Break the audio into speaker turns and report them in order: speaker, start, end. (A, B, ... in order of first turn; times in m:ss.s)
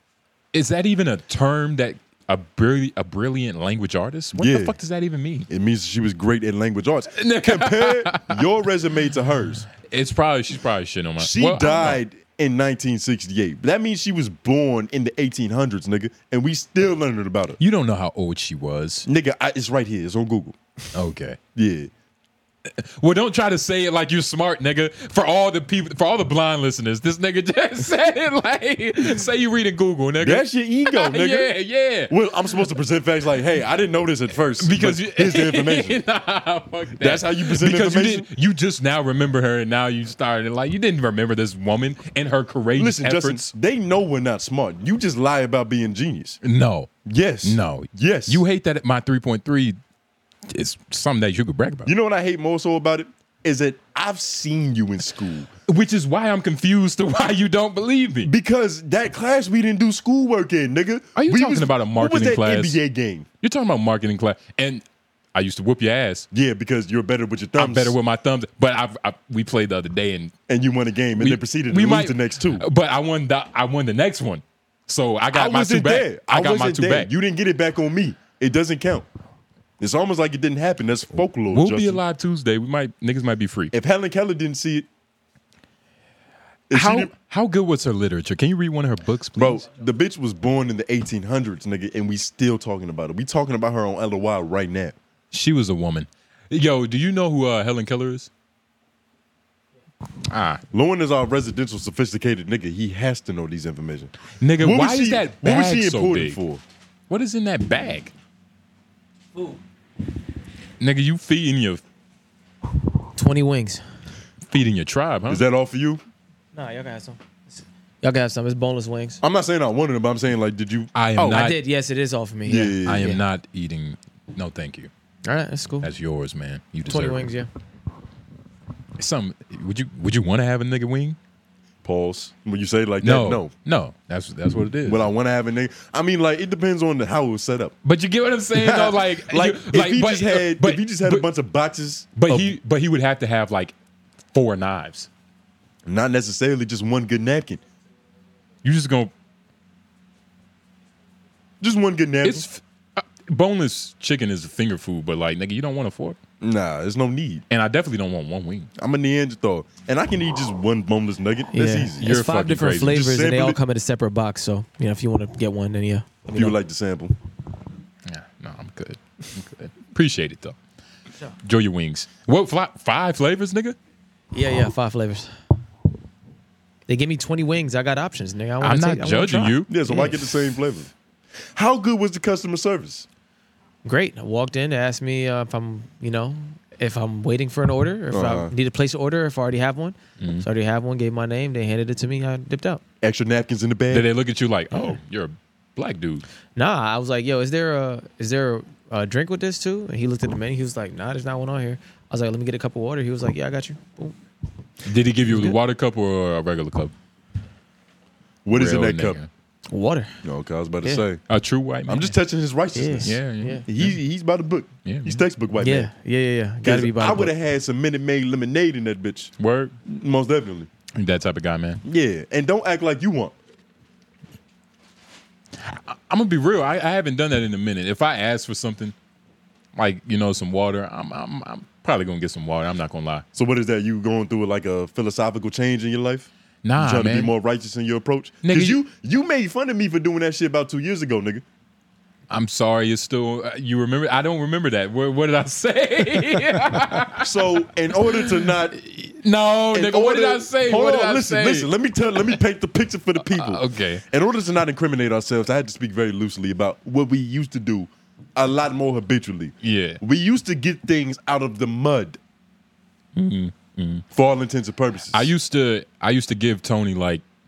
0:00.5-0:05.5 A
0:04.4-0:04.7 B
0:05.5-0:09.7 B
0:07.1-0:08.4 A
0:09.8-0:12.0 A
0:11.2-0:17.6 B
0:17.6-0:19.1 A
0:19.0-0:20.9 B
0:20.9-0:21.4 A
0:21.5-0:21.9 B
0:22.6-0:32.1 A
0:30.2-0:31.5 B
0:32.1-0:36.0 B
0:34.6-0:43.4 A
0:37.0-0:38.3 B
0:42.8-0:46.4 B
0:46.4-0:46.9 A
0:47.0-0:48.4 B
0:47.4-0:49.8 A
0:50.5-0:51.9 A
0:51.8-0:55.5 B
0:55.7-0:58.3 A
0:58.2-1:03.2 B
1:01.2-1:02.8 A
1:03.4-1:06.3 A
1:06.3-1:08.0 B
1:07.5-1:10.3 A
1:10.5-1:12.6 B
1:11.2-1:17.1 A
1:15.3-1:19.0 B
1:19.8-1:22.0 B
1:21.5-1:23.7 A
1:23.7-1:24.9 B
1:26.7-1:27.1 B
1:26.7-1:29.6 A
1:29.4-1:34.9 B
1:35.3-1:38.3 A
1:40.2-1:40.6 A
1:40.7-1:46.6 B
1:44.4-1:46.4 A
1:47.1-1:48.1 A
1:50.8-1:51.8 A
1:53.2-1:53.8 C
1:54.5-1:55.4 A
1:55.3-1:56.0 B
1:56.5-1:59.2 C
1:59.2-2:01.4 B
2:00.9-2:01.6 A
2:01.2-2:03.2 C
2:02.4-2:03.1 B
2:02.8-2:04.9 A
2:05.2-2:05.9 C
2:05.8-2:07.3 A
2:06.9-2:07.5 C
2:09.0-2:11.2 A
2:11.8-2:13.5 B
2:13.0-2:15.1 A
2:14.8-2:17.7 B
2:17.8-2:21.3 A
2:18.5-2:22.5 B
2:22.2-2:23.7 A
2:24.3-2:25.1 A
2:25.8-2:27.6 B
2:28.6-2:29.1 A
2:31.6-2:32.5 B
2:32.2-2:36.2 A
2:36.4-2:37.4 B
2:37.5-2:38.7 A
2:38.8-2:42.1 B
2:41.5-2:46.6 C
2:42.0-2:43.1 A
2:42.8-2:43.6 B
2:46.3-2:47.1 B
2:48.0-2:50.6 A
2:51.4-2:53.8 A
2:54.3-2:55.3 C
2:56.9-3:00.0 C
2:58.6-3:00.3 A
2:59.7-3:00.9 B
3:01.6-3:03.0 B
3:03.8-3:12.8 C
3:08.1-3:08.5 B
3:10.2-3:10.5 A
3:13.0-3:14.1 B
3:13.9-3:16.2 A
3:16.6-3:24.2 C
3:24.8-3:26.9 A
3:25.3-3:25.6 C
3:28.4-3:29.2 B
3:28.5-3:29.3 A
3:29.7-3:30.2 C
3:30.2-3:31.2 B
3:31.3-3:32.2 A
3:31.9-3:35.9 B
3:32.7-3:33.6 C
3:33.0-3:34.0 A
3:34.8-3:35.2 A
3:35.6-3:37.3 C
3:36.6-3:39.3 B
3:39.4-3:39.7 A
3:39.8-3:40.7 B
3:40.9-3:41.8 A
3:41.8-3:43.3 B
3:45.6-3:48.9 A
3:49.7-3:53.2 A
3:53.3-4:01.4 B
3:56.6-3:57.3 A
3:58.4-3:58.8 A
4:02.3-4:12.4 A
4:07.2-4:08.8 B
4:09.7-4:22.2 B
4:13.2-4:14.0 A
4:19.6-4:20.0 A
4:23.1-4:24.0 A
4:24.1-4:25.3 B
4:25.1-4:27.2 A